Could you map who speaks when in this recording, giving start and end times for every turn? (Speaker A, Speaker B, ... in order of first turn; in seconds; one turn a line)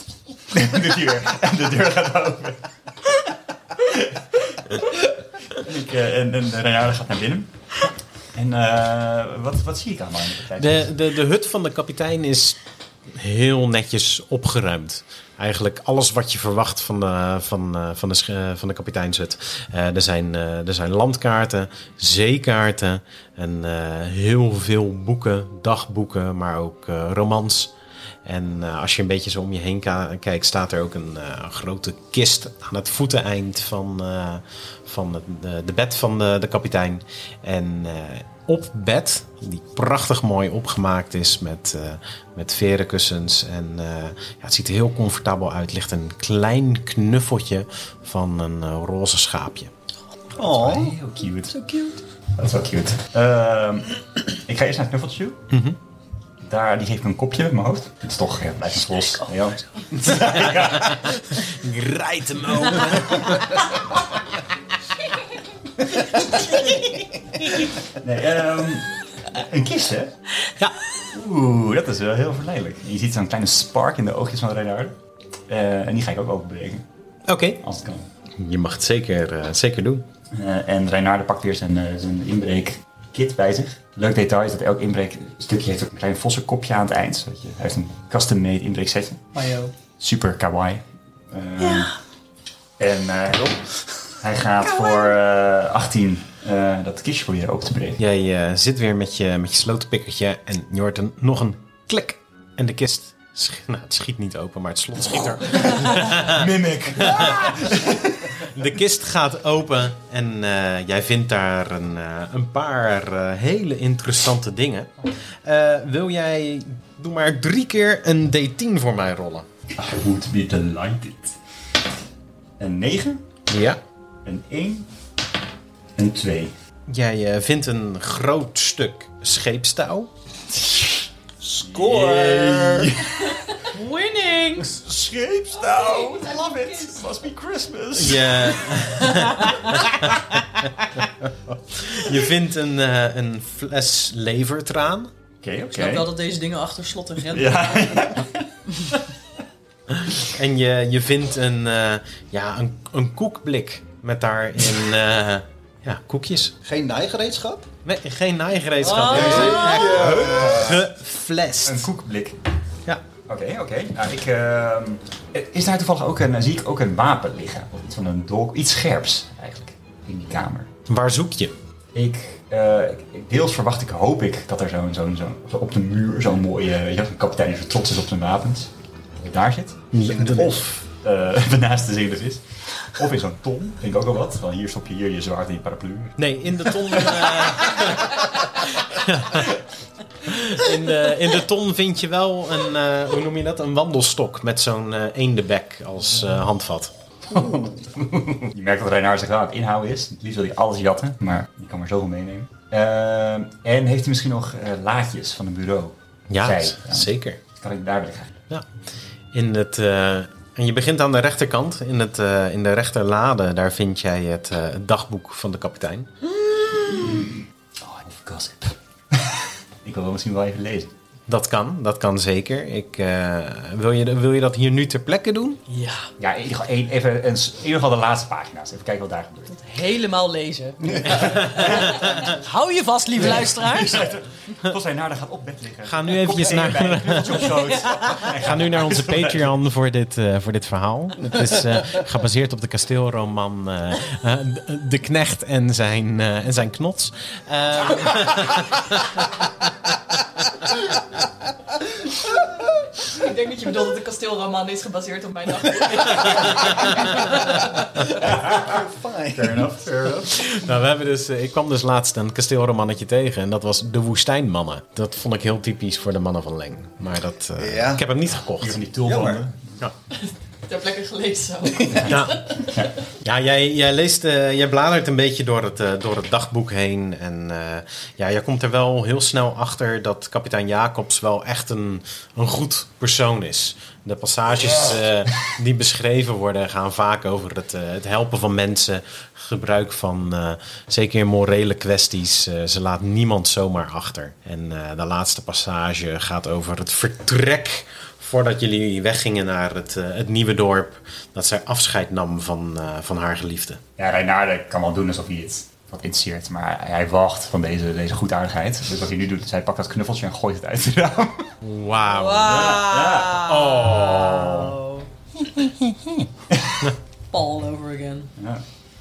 Speaker A: 0.5-3.1
Speaker A: 3.7-10.9
Speaker B: 10.6-12.6
Speaker B: 13.1-27.7
Speaker B: 28.2-49.7
Speaker C: 50.4-50.9
Speaker A: 50.4-51.6
Speaker A: 52.3-55.4
Speaker B: 55.5-55.8
Speaker A: 56.4-61.1
Speaker B: 60.9-63.7
Speaker A: 66.4-66.8
Speaker A: 67.9-70.2
Speaker A: 71.1-75.0
Speaker A: 75.5-76.8
Speaker B: 77.3-77.6
Speaker A: 77.6-78.1
Speaker B: 78.4-80.0
Speaker A: 80.3-89.3
Speaker D: 89.3-89.7
Speaker A: 90.0-91.9
Speaker A: 92.8-93.6
Speaker A: 94.2-98.0
Speaker B: 98.0-106.5
Speaker A: 105.6-108.3
Speaker B: 107.0-119.5
Speaker A: 119.7-121.4
Speaker A: 122.6-123.2
Speaker B: 123.5-123.8
Speaker A: 124.2-124.9
Speaker A: 126.0-126.5
Speaker B: 126.9-130.1
Speaker C: 131.4-132.9
Speaker A: 131.6-133.4
Speaker D: 133.7-134.7
Speaker A: 134.6-139.2
Speaker E: 135.7-136.9
Speaker B: 137.9-145.1
Speaker A: 145.4-146.1
Speaker D: 145.7-147.6
Speaker A: 147.3-148.5
Speaker B: 150.1-156.5
Speaker C: 156.6-157.7
Speaker B: 157.8-161.9
Speaker D: 158.8-159.9
Speaker C: 159.1-160.8
Speaker A: 159.1-160.8
Speaker A: 161.6-162.4
Speaker A: 163.3-170.7
Speaker B: 170.9-171.5
Speaker A: 171.9-186.3
Speaker B: 179.9-180.7
Speaker B: 186.2-189.6
Speaker A: 186.8-187.7
Speaker B: 190.2-196.9
Speaker A: 197.3-208.4
Speaker B: 206.3-207.4
Speaker B: 209.3-216.1
Speaker A: 217.0-220.9
Speaker B: 221.3-225.6
Speaker D: 225.7-226.1
Speaker A: 226.2-229.5
Speaker D: 229.5-234.0
Speaker A: 231.2-232.1
Speaker B: 231.2-231.7
Speaker A: 233.2-239.6
Speaker B: 235.8-237.7
Speaker B: 238.2-249.3
Speaker C: 252.3-252.6
Speaker E: 253.1-258.0
Speaker A: 258.1-260.5
Speaker C: 258.2-259.7
Speaker B: 260.4-268.8
Speaker C: 267.6-268.0
Speaker A: 268.3-269.8
Speaker C: 269.0-269.4
Speaker E: 270.1-272.7
Speaker A: 271.9-272.9
Speaker B: 272.0-272.5
Speaker B: 273.2-303.8
Speaker A: 304.0-311.5
Speaker B: 311.6-314.8
Speaker D: 312.1-315.1
Speaker A: 312.4-313.5
Speaker A: 316.5-316.8
Speaker D: 317.3-318.3
Speaker A: 318.4-318.6